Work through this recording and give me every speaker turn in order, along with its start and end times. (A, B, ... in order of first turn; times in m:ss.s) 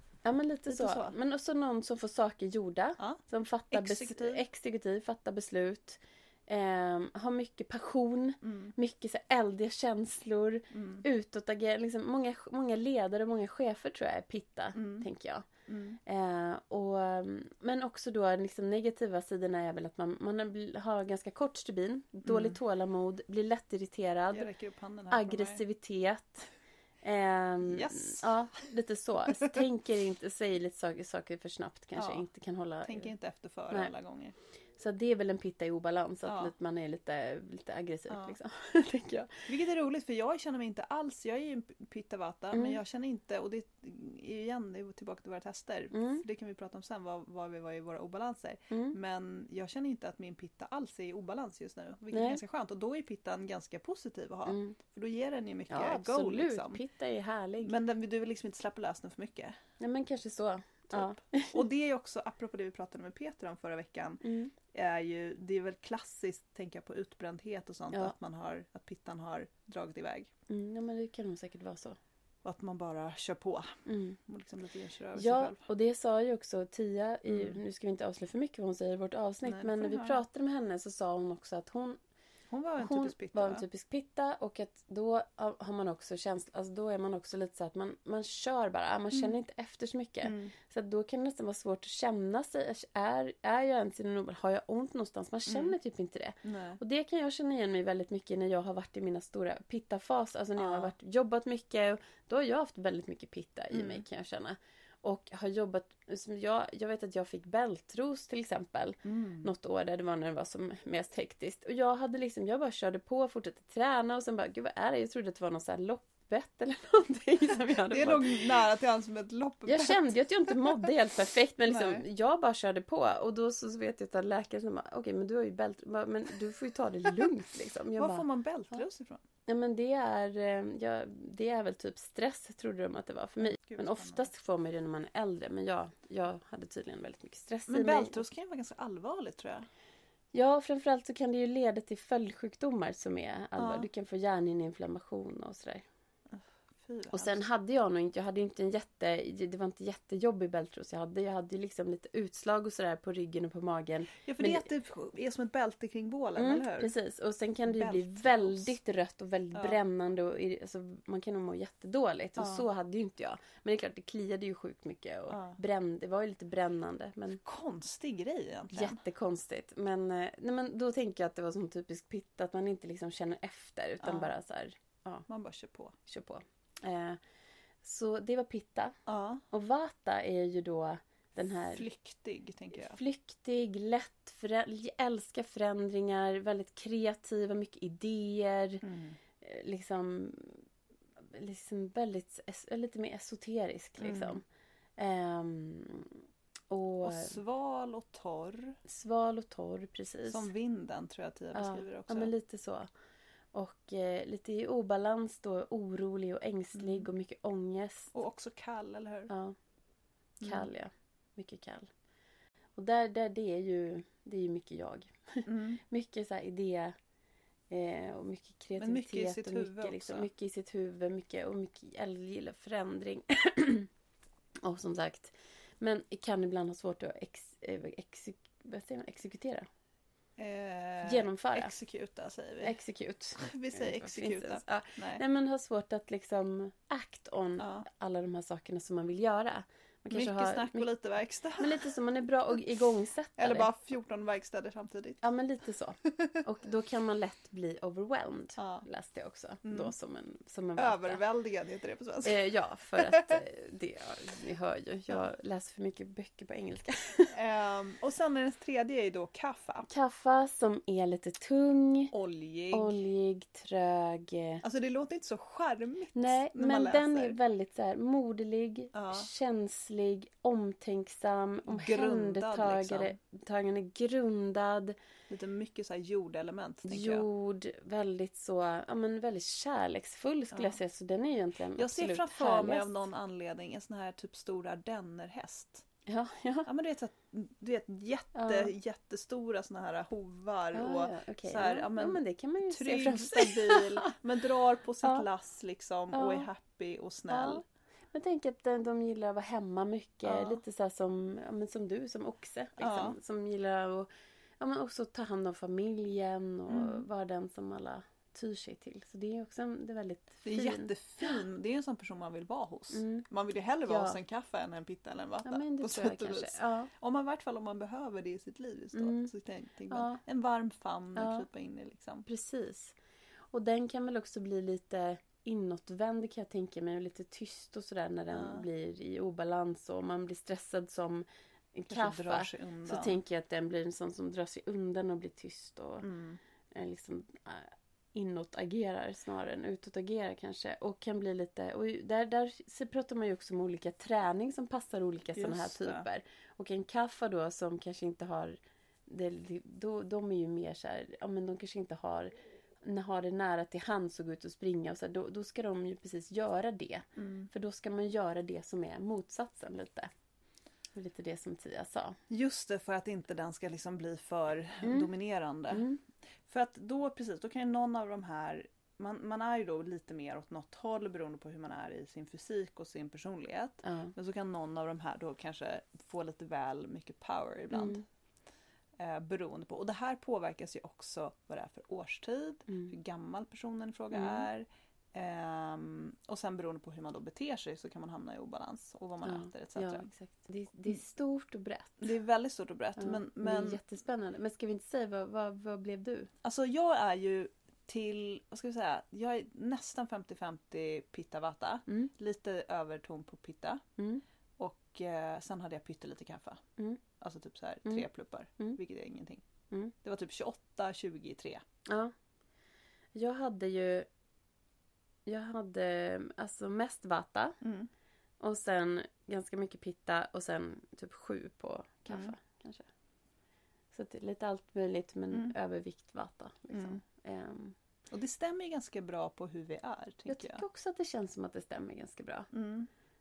0:00.2-0:15.5 A
0:00.7-0:01.1 B
0:03.0-0:04.4 B
0:08.4-0:08.7 B
0:10.7-0:11.0 B
0:14.7-0:15.0 B
0:15.7-0:16.0 B
0:16.0-0:24.5 A
0:22.2-0:22.6 B
0:24.3-0:25.6 B
0:25.1-0:26.5 A
0:27.0-0:33.1 A
0:27.6-0:28.3 B
0:29.3-0:29.6 B
0:32.0-0:32.2 B
0:32.8-0:34.3 B
0:34.8-0:39.5 A
0:36.2-0:36.5 B
0:38.1-0:38.4 B
0:39.5-0:56.8 B
0:42.5-0:42.8 A
0:45.9-0:46.2 A
0:48.7-0:49.0 A
0:52.1-0:52.4 A
0:54.5-0:54.8 A
0:55.7-0:57.7 A
0:57.6-0:59.6 B
0:59.8-1:01.6 A
1:00.9-1:10.3 B
1:04.2-1:04.5 A
1:10.5-1:12.0 A
1:12.4-1:15.6 B
1:13.8-1:14.2 A
1:15.2-1:22.0 A
1:17.3-1:17.6 B
1:19.4-1:20.2 B
1:22.5-1:23.6 B
1:22.8-1:58.6 A
1:30.2-1:30.5 B
1:35.5-1:35.8 B
1:36.4-1:36.8 B
1:40.6-1:40.9 B
1:43.7-1:44.0 B
1:49.0-1:49.5 B
1:57.9-2:00.9 B
1:59.6-2:08.8 A
2:01.7-2:02.0 B
2:08.0-2:09.2 B
2:09.5-2:18.2 A
2:13.4-2:14.3 B
2:17.7-2:19.7 B
2:20.3-2:25.8 A
2:23.6-2:23.9 B
2:26.3-2:27.4 B
2:27.1-2:34.7 A
2:34.2-2:36.9 B
2:36.4-2:47.4 A
2:37.6-2:38.7 B
2:42.4-2:42.7 B
2:45.3-2:45.6 B
2:47.4-2:49.0 B
2:48.7-2:55.2 A
2:54.0-2:54.3 B
2:55.3-2:56.0 B
2:56.0-2:57.2 A
2:57.8-2:59.0 A
2:59.1-2:59.4 B
2:59.5-3:01.8 A
3:01.6-3:03.0 B
3:02.7-3:08.8 A
3:08.8-3:09.2 B
3:09.4-3:10.6 A
3:11.3-3:14.4 A
3:14.0-3:14.4 B
3:15.0-3:17.4 A
3:17.0-3:18.8 B
3:18.8-3:20.5 A
3:20.3-3:22.3 B
3:21.5-3:22.9 A
3:23.5-3:28.1 A
3:26.7-3:27.1 B
3:28.1-3:29.3 B
3:29.3-3:29.5 A
3:30.4-3:30.7 B
3:30.4-3:31.9 A
3:32.8-3:36.9 A
3:35.4-3:35.8 B
3:37.7-3:43.9 A
3:38.8-3:40.3 B
3:44.6-3:49.7 A
3:50.4-3:52.7 B
3:51.0-3:51.7 A
3:52.6-4:00.9 A
3:53.4-3:55.2 B
3:57.6-3:57.8 B
4:00.1-4:01.9 B
4:01.6-4:03.7 A
4:03.4-4:05.2 B
4:05.2-4:11.2 A
4:08.6-4:08.8 B
4:09.6-4:09.9 B
4:10.8-4:12.4 B
4:12.2-4:17.3 A
4:12.9-4:13.4 B
4:17.3-4:19.9 B
4:19.9-4:22.1 A
4:22.1-4:23.0 B
4:22.7-4:24.6 A
4:24.6-4:27.4 B
4:26.1-4:35.0 A
4:28.9-4:29.3 B
4:31.7-4:33.2 B
4:35.3-4:37.2 B
4:36.8-4:43.0 A
4:40.5-4:40.8 B
4:41.8-4:45.8 B
4:46.1-4:46.7 A
4:46.6-4:57.6 B
4:48.3-4:48.7 A
4:50.7-4:54.1 A
4:56.1-4:56.5 A
4:57.3-5:04.1 A
5:00.2-5:00.6 B
5:02.8-5:03.2 B
5:04.6-5:11.4 A
5:06.7-5:07.0 B
5:10.4-5:22.2 B
5:12.9-5:13.2 A
5:13.9-5:14.2 A
5:15.4-5:16.9 A
5:18.9-5:19.3 A
5:19.9-5:20.2 A
5:21.2-5:21.4 A
5:22.2-5:22.9 A
5:23.5-5:36.0 A
5:28.3-5:28.6 B
5:31.9-5:33.2 B
5:36.0-5:36.4 B
5:36.7-6:00.1 A
5:45.3-5:46.0 B
5:57.2-5:57.5 B
6:00.9-6:02.2 A
6:02.3-6:05.8 B
6:04.8-6:05.1 A
6:05.7-6:06.0 A
6:06.5-6:18.0 B
6:13.8-6:14.1 A
6:17.7-6:18.0 A
6:19.0-6:30.1 B
6:22.7-6:22.9 A
6:24.1-6:24.4 A
6:29.2-6:32.1 A
6:32.0-6:33.8 B
6:33.0-6:36.3 A
6:36.4-6:43.8 B
6:44.0-6:44.2 A
6:44.6-6:46.6 B
6:47.2-6:49.4 B
6:50.0-6:51.6 B
6:51.8-6:52.1 A
6:53.1-6:54.1 A
6:55.2-6:57.6 A
6:57.6-6:57.9 B
6:58.4-7:02.8 A
7:02.1-7:02.3 B
7:03.9-7:07.7 A
7:06.7-7:07.0 B
7:08.1-7:10.6 B
7:10.3-7:12.5 A
7:12.5-7:12.9 B